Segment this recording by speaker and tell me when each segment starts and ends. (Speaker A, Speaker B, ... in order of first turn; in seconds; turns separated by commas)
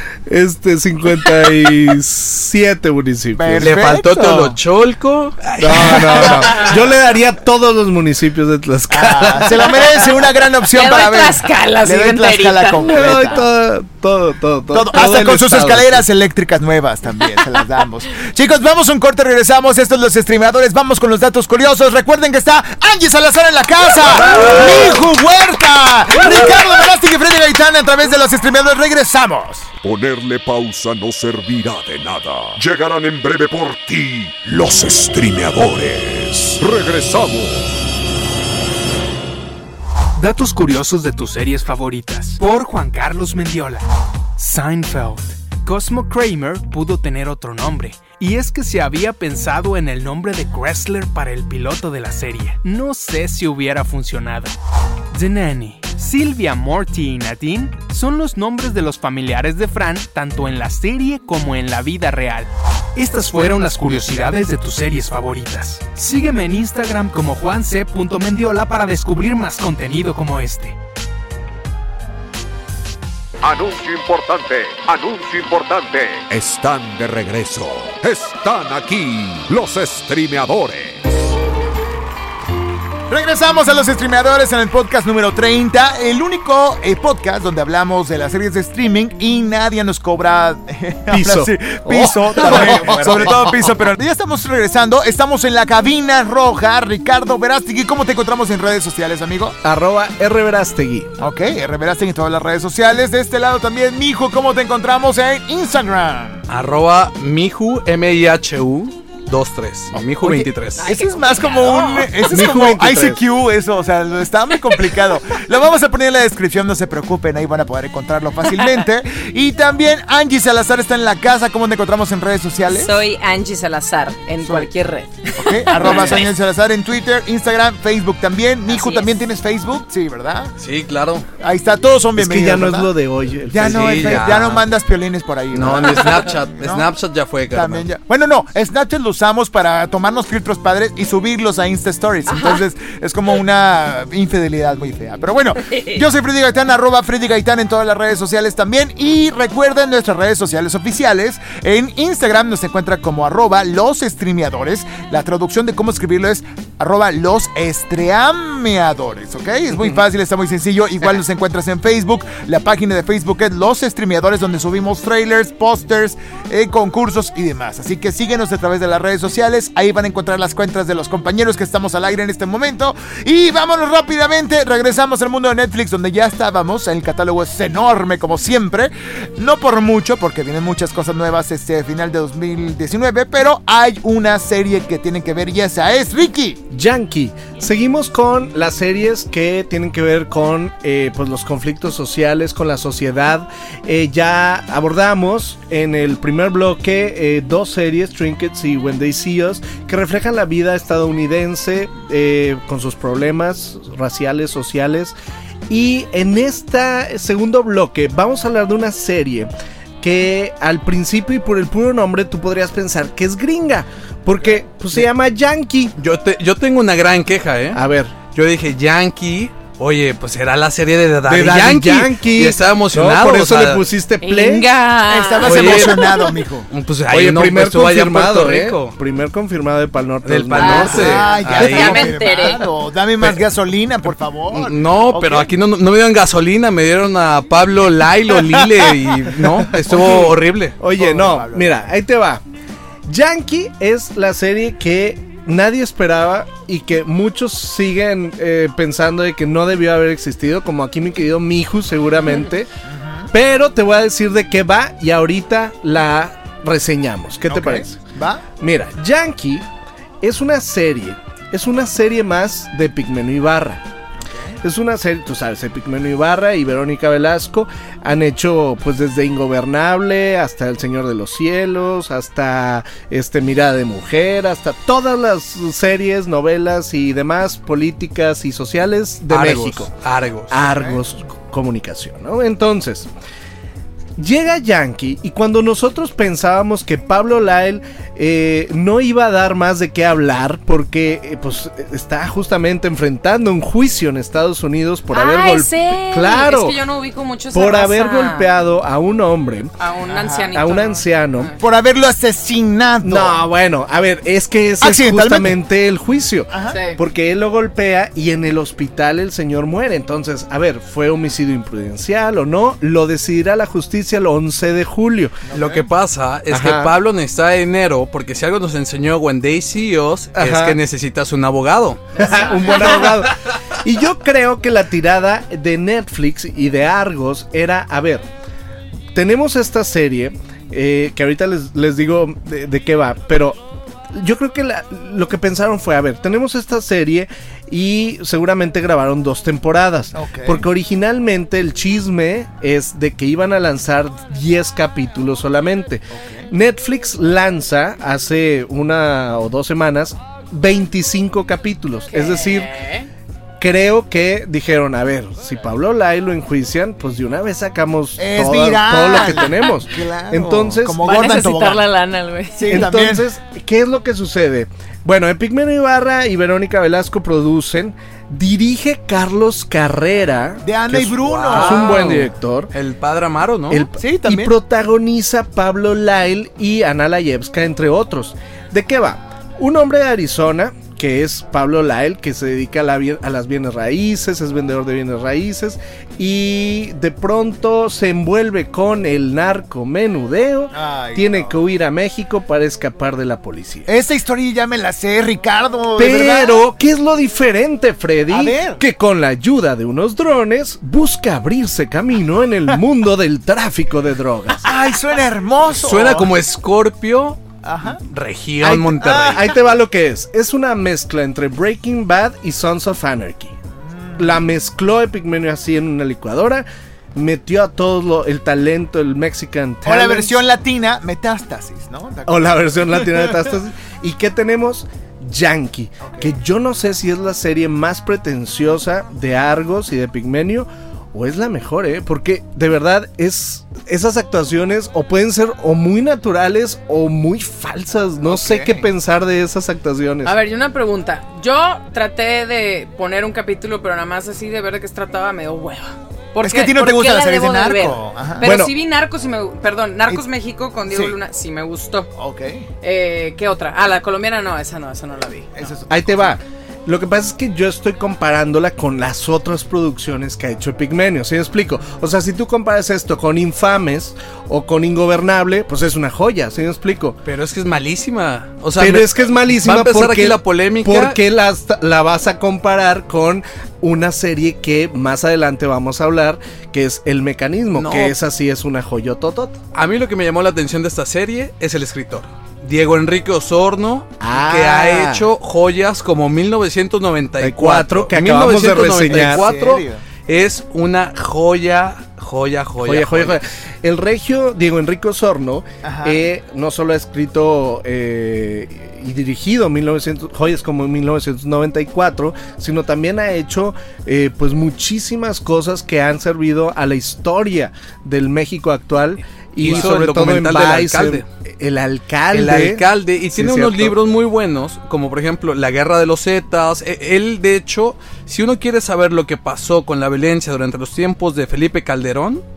Speaker A: 0.3-3.8, Speaker B: 3.4-4.6, Speaker C: 3.6-6.7, Speaker A: 5.6-10.0, Speaker B: 8.9-13.4, Speaker D: 10.7-13.2, Speaker A: 12.8-16.1, Speaker B: 14.7-29.7, Speaker A: 24.3-24.9, Speaker E: 29.8-37.7, Speaker F: 40.2-43.9, Speaker F: 44.4-54.5, Speaker F: 55.1-70.8, Speaker E: 73.4-81.2, Speaker B: 83.1-99.6, Speaker A: 91.1-93.7, Speaker A: 99.6-101.1, Speaker B: 101.2-106.4, Speaker C: 106.5-110.9, Speaker B: 109.9-122.9, Speaker D: 110.8-112.3, Speaker A: 112.3-113.2, Speaker D: 122.7-126.3, Speaker B: 125.4-130.5, Speaker D: 128.7-129.2, Speaker C: 130.6-131.3, Speaker B: 131.4-132.9, Speaker A: 132.2-134.6, Speaker B: 133.5-136.9, Speaker C: 133.6-134.6, Speaker C: 135.5-137.9, Speaker B: 137.5-186.6, Speaker D: 142.3-142.6, Speaker D: 145.7-146.0, Speaker A: 186.7-205.2, Speaker A: 205.7-209.5, Speaker A: 210.0-215.9, Speaker C: 216.0-217.8, Speaker A: 217.7-218.2, Speaker C: 218.3-223.8, Speaker A: 221.3-224.7, Speaker D: 224.2-226.3, Speaker B: 225.1-226.7, Speaker C: 225.4-228.9, Speaker A: 227.1-231.2, Speaker C: 230.2-232.2, Speaker D: 230.6-232.6, Speaker B: 230.9-235.5, Speaker C: 234.5-240.8, Speaker A: 239.9-242.4, Speaker B: 241.0-241.8, Speaker A: 243.1-252.7, Speaker B: 252.9-253.3, Speaker A: 253.3-258.0, Speaker B: 257.5-258.4, Speaker A: 258.6-259.7, Speaker A: 260.2-263.8, Speaker B: 264.3-264.6, Speaker A: 264.6-279.9, Speaker C: 279.3-280.6, Speaker A: 280.5-283.1, Speaker B: 280.6-281.0, Speaker A: 284.2-296.8, Speaker D: 295.1-298.5, Speaker A: 297.5-299.7, Speaker D: 299.8-301.6, Speaker B: 300.1-300.5, Speaker A: 300.5-301.5, Speaker B: 301.6-303.4, Speaker A: 303.0-315.4, Speaker B: 304.8-305.6, Speaker B: 306.5-306.8, Speaker D: 306.7-307.0, Speaker B: 315.5-315.9, Speaker C: 315.5-322.2, Speaker A: 316.5-316.9, Speaker A: 320.4-320.8, Speaker B: 322.2-322.9, Speaker A: 322.2-328.3, Speaker D: 322.3-322.9, Speaker A: 329.1-333.6, Speaker A: 334.1-352.7, Speaker B: 340.2-340.6, Speaker B: 346.1-346.5, Speaker D: 352.1-353.1, Speaker A: 353.6-361.4, Speaker B: 358.2-361.9, Speaker D: 361.0-362.9, Speaker B: 362.6-363.2, Speaker A: 362.7-372.7, Speaker B: 370.6-372.2, Speaker C: 371.2-373.9, Speaker A: 373.7-393.9, Speaker B: 374.0-374.5, Speaker B: 390.7-391.6, Speaker B: 393.9-396.6, Speaker A: 396.0-404.7, Speaker B: 398.3-398.8, Speaker B: 404.6-406.3, Speaker C: 405.7-407.4, Speaker B: 407.6-408.0, Speaker C: 407.9-409.5, Speaker A: 408.6-413.5, Speaker B: 409.0-409.4, Speaker B: 413.9-414.3, Speaker A: 414.2-420.3, Speaker B: 419.9-423.4, Speaker A: 422.3-440.3, Speaker B: 426.1-426.4, Speaker B: 438.2-438.9, Speaker D: 440.2-452.1, Speaker B: 446.4-448.5, Speaker A: 448.4-448.7, Speaker B: 450.9-451.2, Speaker B: 452.2-452.7, Speaker D: 452.8-455.6, Speaker B: 455.6-456.4, Speaker A: 455.9-467.2, Speaker C: 467.2-471.2, Speaker A: 468.8-479.6, Speaker C: 477.7-478.1, Speaker C: 479.7-493.4, Speaker A: 484.2-485.3, Speaker A: 487.4-489.4, Speaker B: 489.1-490.0, Speaker A: 492.8-514.0, Speaker B: 495.8-496.2, Speaker C: 509.6-511.3, Speaker C: 512.3-522.4